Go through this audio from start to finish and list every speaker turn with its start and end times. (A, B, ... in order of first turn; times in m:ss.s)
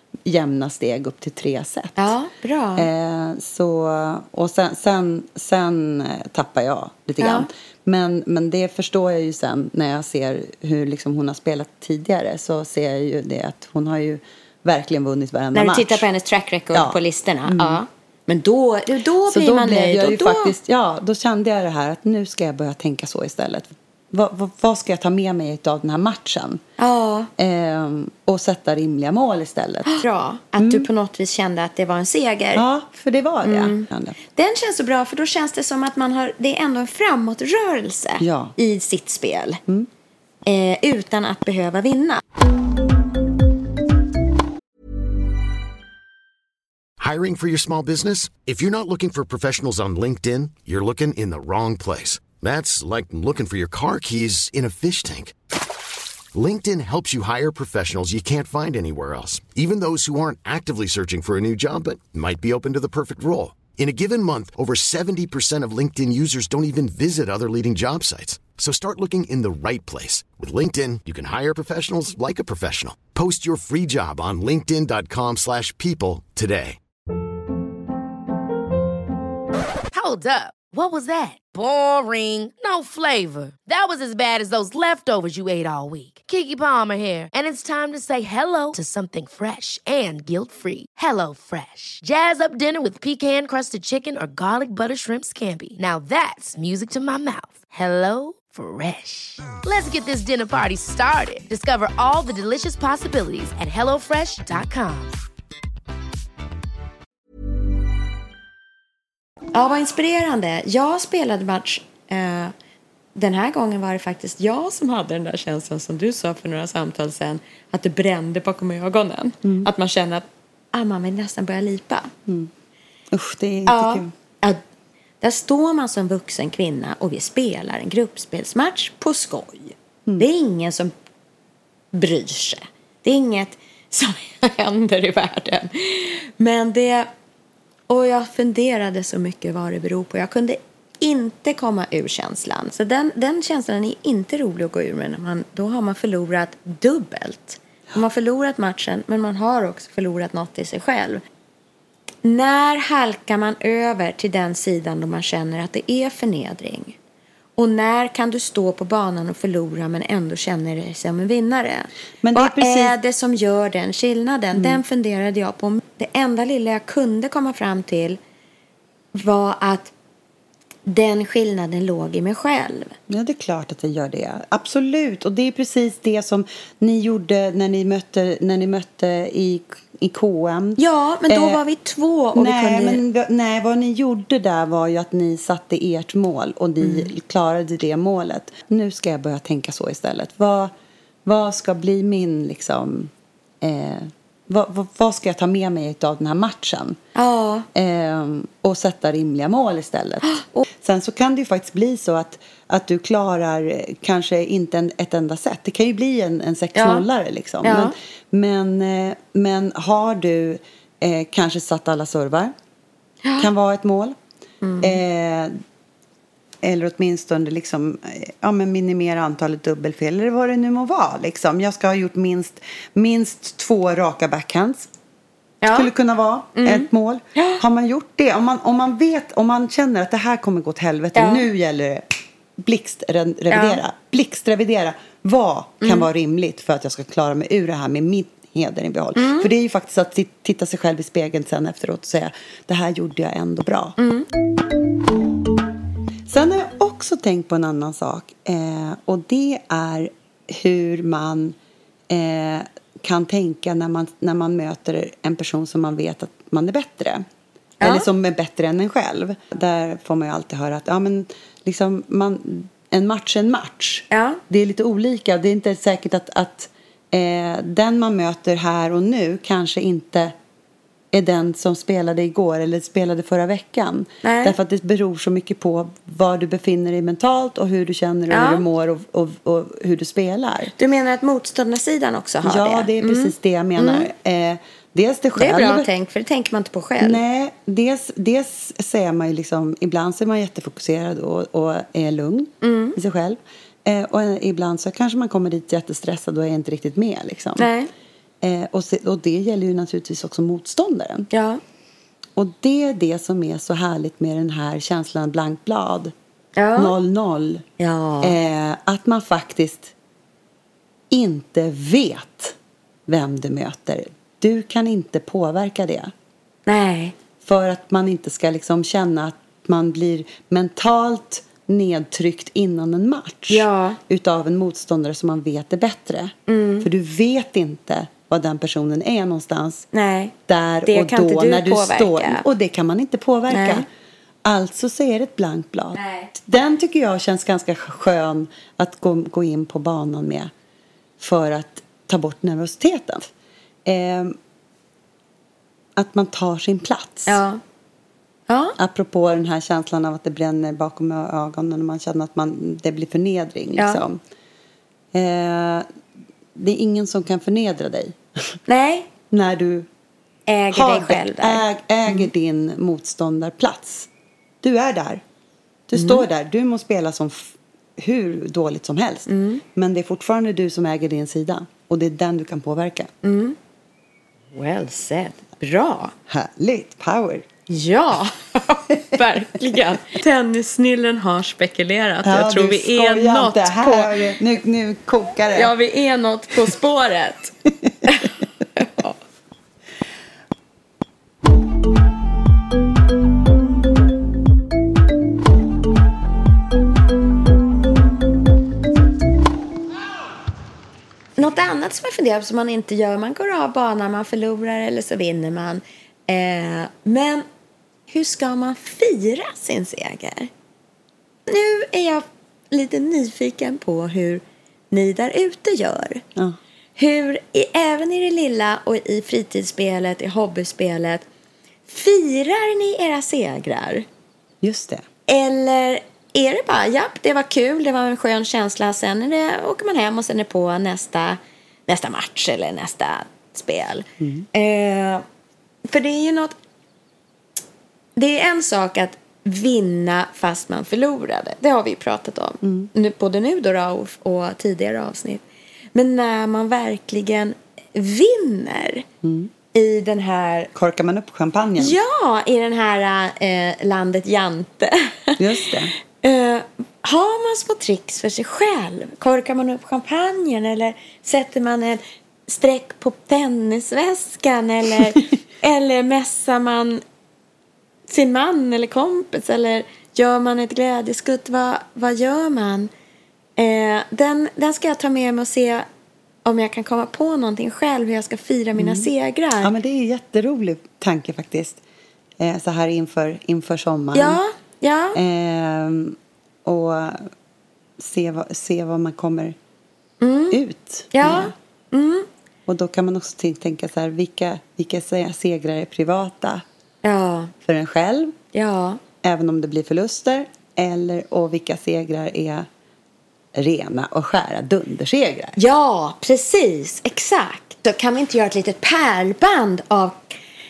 0:00.2-0:02.1 A
0:02.0-0:02.9 B
0:02.8-0:16.1 A
0:07.2-0:07.5 B
0:15.5-0:20.6 B
0:16.7-0:17.8 A
0:19.2-0:26.6 A
0:26.8-0:27.3 B
0:27.4-0:30.0 A
0:29.8-0:32.6 B
0:30.6-0:30.9 A
0:32.5-0:34.2 A
0:33.4-0:39.6 B
0:38.2-0:38.5 A
0:40.4-0:42.2 B
0:47.0-0:55.3 C
0:56.3-1:16.8 C
1:19.9-1:45.2 D
1:49.5-1:52.5 B
1:53.1-2:02.1 B
1:59.4-1:59.7 A
2:03.1-2:04.1 A
2:03.7-2:04.6 B
2:05.2-2:10.9 B
2:11.9-2:17.1 B
2:17.9-2:31.2 B
2:32.2-2:37.0 B
2:37.6-2:48.2 B
2:42.2-2:43.0 A
2:44.5-2:44.8 A
2:49.1-2:49.9 B
2:50.8-2:52.9 B
2:53.1-3:01.6 A
3:00.8-3:03.0 B
3:02.3-3:10.7 A
3:06.8-3:07.1 B
3:11.2-3:17.0 A
3:17.1-3:17.7 B
3:17.7-3:32.5 A
3:20.2-3:20.6 B
3:26.7-3:27.0 B
3:27.6-3:27.9 B
3:33.2-3:33.5 B
3:33.4-3:34.2 A
3:34.6-3:35.0 B
3:34.8-3:35.5 A
3:36.6-3:44.9 A
3:45.6-3:45.9 B
3:45.7-3:52.0 A
3:46.5-3:47.6 B
3:51.1-3:51.4 B
3:52.6-4:04.0 A
3:53.5-3:53.8 B
3:55.8-3:56.1 B
3:59.2-3:59.5 B
4:04.0-4:04.3 B
4:06.3-4:11.6 A
4:12.1-4:17.2 A
4:17.8-4:18.1 B
4:17.8-4:30.3 A
4:24.1-4:24.4 B
4:31.1-4:40.7 A
4:34.2-4:34.5 B
4:38.3-4:38.6 B
4:40.8-4:44.1 B
4:42.4-4:45.9 A
4:45.4-4:47.2 B
4:47.0-4:57.7 A
4:52.6-4:53.0 B
4:57.6-4:57.9 B
4:58.4-5:01.3 A
5:01.3-5:01.6 B
5:02.4-5:06.1 A
5:06.6-5:06.9 B
5:06.7-5:07.6 A
5:07.8-5:08.4 B
5:08.2-5:09.9 A
5:11.1-5:12.6 A
5:13.1-5:16.1 A
5:16.6-5:17.1 B
5:17.4-5:29.8 A
5:23.5-5:24.0 B
5:26.5-5:26.9 B
5:29.9-5:30.3 B
5:30.5-5:33.8 A
5:30.8-5:32.4 B
5:33.5-5:33.8 B
5:34.4-5:40.5 A
5:35.9-5:36.3 B
5:41.2-5:43.3 A
5:43.8-5:44.4 A
5:46.0-5:47.4 A
5:47.3-5:47.6 B
5:48.5-5:48.7 B
5:48.8-5:54.2 A
5:53.8-5:54.0 B
5:55.1-5:55.8 A
5:56.5-5:58.6 A
5:58.7-5:59.1 B
5:59.3-5:59.9 A
6:00.5-6:02.3 B
6:00.7-6:04.1 A
6:04.6-6:05.2 A
6:05.9-6:13.1 A
6:06.0-6:06.2 B
6:09.3-6:09.6 B
6:13.2-6:13.6 B
6:14.5-6:16.1 B
6:16.3-6:17.4 A
6:17.7-6:24.1 B
6:19.2-6:19.8 A
6:22.2-6:25.7 A
6:25.5-6:27.5 B
6:28.0-6:29.2 B
6:41.4-6:47.4 B
6:48.1-6:50.5 B
6:51.5-6:56.2 B
6:57.0-7:01.2 B
7:01.9-7:04.0 B
7:04.6-7:05.0 A
7:05.3-7:15.2 B
7:14.2-7:14.5 A
7:15.9-7:16.6 B
7:18.2-7:25.4 B
7:22.6-7:22.9 A
7:25.9-7:29.0 B
7:29.2-7:29.5 A
7:29.7-7:30.7 B
7:30.7-7:32.0 A
7:31.8-7:35.4 B
7:35.4-7:35.9 A
7:36.2-7:47.0 B
7:48.1-7:52.9 B
7:53.6-7:55.8 B
7:56.4-7:59.7 B
7:58.8-7:59.1 A
7:59.6-8:01.8 A
8:02.4-8:04.4 A
8:04.1-8:05.2 B
8:05.1-8:07.3 A
8:08.0-8:09.6 A
8:10.2-8:10.6 B
8:10.5-8:11.5 A
8:11.1-8:12.3 B
8:12.7-8:16.6 A
8:17.0-8:17.5 B
8:17.6-8:18.4 A
8:18.5-8:19.0 B
8:19.2-8:22.7 A
8:23.5-8:25.6 A
8:25.6-8:30.3 B